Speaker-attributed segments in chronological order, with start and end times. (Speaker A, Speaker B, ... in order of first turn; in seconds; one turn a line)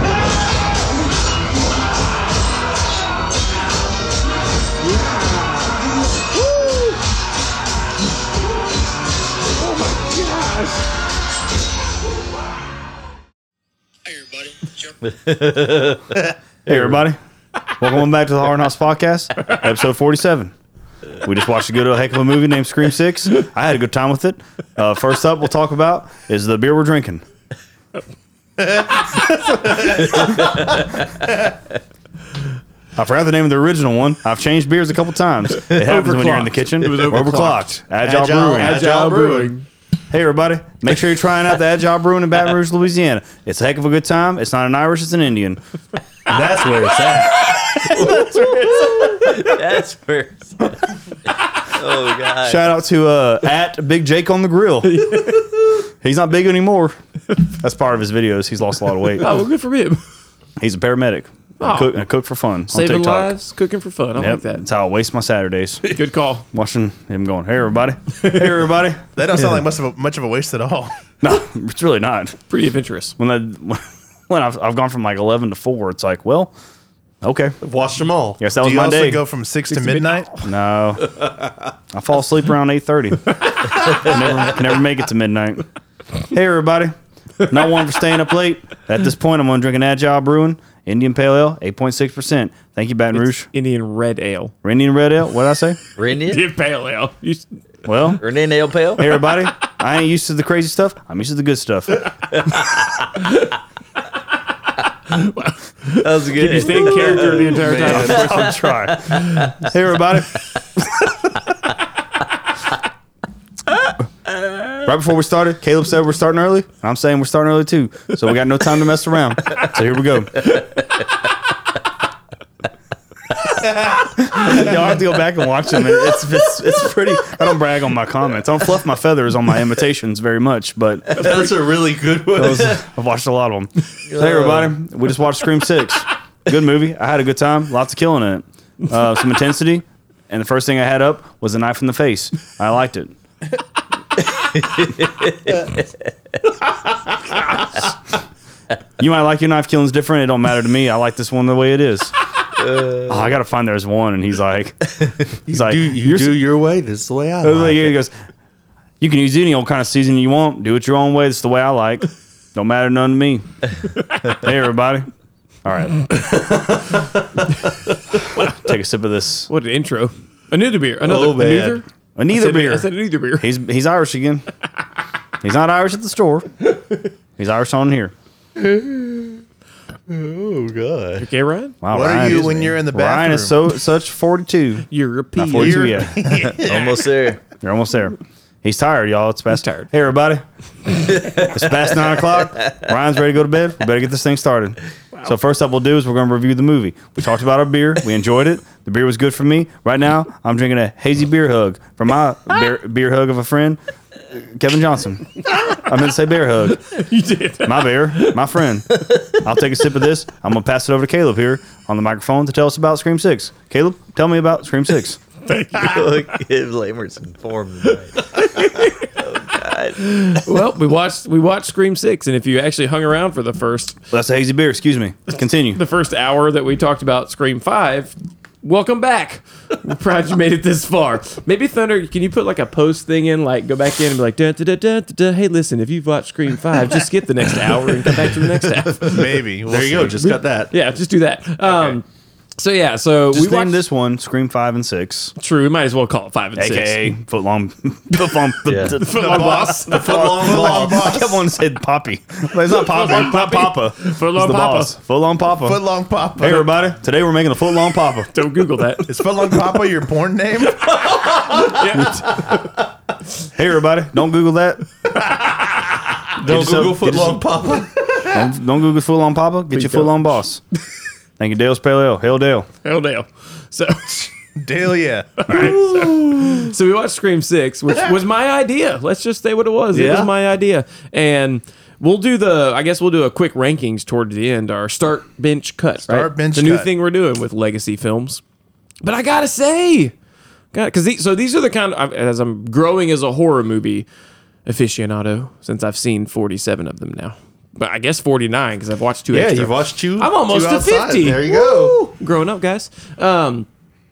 Speaker A: 4.8-5.6
Speaker A: 6.4-7.0
Speaker A: 9.7-10.8
Speaker B: 15.0-16.2
Speaker C: 16.7-17.2
Speaker C: 17.8-20.5
Speaker C: 21.2-27.2
Speaker C: 33.0-38.8
Speaker A: 35.7-37.7
Speaker D: 38.0-39.5
Speaker A: 38.5-39.7
Speaker C: 40.1-45.6
Speaker D: 46.3-48.0
Speaker C: 47.9-48.9
Speaker B: 49.2-50.8
Speaker B: 51.7-52.6
Speaker C: 52.4-59.4
Speaker A: 54.9-55.4
Speaker A: 59.2-60.0
Speaker C: 60.6-63.4
Speaker A: 61.6-62.1
Speaker A: 62.7-64.6
Speaker C: 64.2-66.0
Speaker A: 65.9-66.5
Speaker C: 66.5-69.1
Speaker E: 69.2-70.9
Speaker C: 71.2-72.4
Speaker A: 72.5-73.2
Speaker C: 73.2-76.5
Speaker C: 77.2-77.6
Speaker D: 77.6-78.5
Speaker C: 78.4-79.2
Speaker E: 78.5-80.3
Speaker A: 79.7-80.5
Speaker C: 80.4-81.3
Speaker C: 81.9-85.7
Speaker C: 86.3-93.5
Speaker A: 93.1-94.5
Speaker C: 94.6-95.8
Speaker B: 96.0-96.4
Speaker A: 96.3-97.5
Speaker C: 97.9-98.2
Speaker B: 98.2-99.2
Speaker C: 99.0-102.0
Speaker A: 105.1-108.5
Speaker B: 106.0-108.5
Speaker D: 107.0-108.6
Speaker C: 107.8-111.1
Speaker B: 109.1-109.5
Speaker C: 114.8-120.5
Speaker C: 124.1-131.6
Speaker D: 131.1-132.8
Speaker C: 132.3-143.2
Speaker B: 134.1-134.7
Speaker B: 144.4-145.8
Speaker C: 149.0-152.1
Speaker B: 152.6-153.2
Speaker C: 153.1-156.4
Speaker D: 155.5-158.0
Speaker C: 157.4-158.2
Speaker C: 159.0-163.5
Speaker C: 164.2-165.1
Speaker C: 165.7-166.5
Speaker C: 168.4-169.5
Speaker A: 169.5-173.5
Speaker D: 171.0-171.8
Speaker C: 172.2-174.5
Speaker C: 175.4-176.5
Speaker C: 177.4-178.1
Speaker D: 178.6-179.4
Speaker D: 180.1-181.3
Speaker A: 181.2-182.5
Speaker C: 181.8-186.6
Speaker E: 181.9-183.6
Speaker A: 184.9-186.1
Speaker E: 185.6-186.7
Speaker D: 186.4-186.9
Speaker B: 186.6-187.4
Speaker C: 187.6-203.8
Speaker A: 189.5-189.9
Speaker B: 191.2-191.5
Speaker C: 204.3-207.1
Speaker A: 206.9-208.4
Speaker C: 207.6-215.2
Speaker A: 215.5-216.4
Speaker B: 215.7-218.4
Speaker A: 218.2-219.1
Speaker B: 219.2-220.3
Speaker A: 219.9-224.0
Speaker C: 224.1-225.8
Speaker A: 225.7-239.4
Speaker E: 239.0-240.1
Speaker D: 239.2-240.7
Speaker A: 240.0-242.1
Speaker A: 242.6-243.8
Speaker C: 243.3-245.3
Speaker A: 245.4-247.2
Speaker C: 246.6-255.8
Speaker B: 248.7-249.0
Speaker A: 249.0-250.0
Speaker E: 249.1-251.4
Speaker D: 249.8-251.1
Speaker A: 252.7-255.0
Speaker E: 255.6-256.8
Speaker C: 256.4-258.3
Speaker A: 258.3-259.5
Speaker E: 259.1-261.3
Speaker A: 261.4-262.8
Speaker C: 263.6-264.9
Speaker D: 266.4-268.2
Speaker C: 266.4-267.7
Speaker C: 268.2-270.6
Speaker A: 269.7-270.4
Speaker C: 271.4-272.7
Speaker A: 272.8-274.3
Speaker E: 274.6-276.1
Speaker A: 275.4-288.4
Speaker C: 275.5-275.8
Speaker E: 286.1-286.9
Speaker A: 289.0-290.1
Speaker A: 290.7-294.1
Speaker A: 294.7-303.7
Speaker D: 299.3-302.0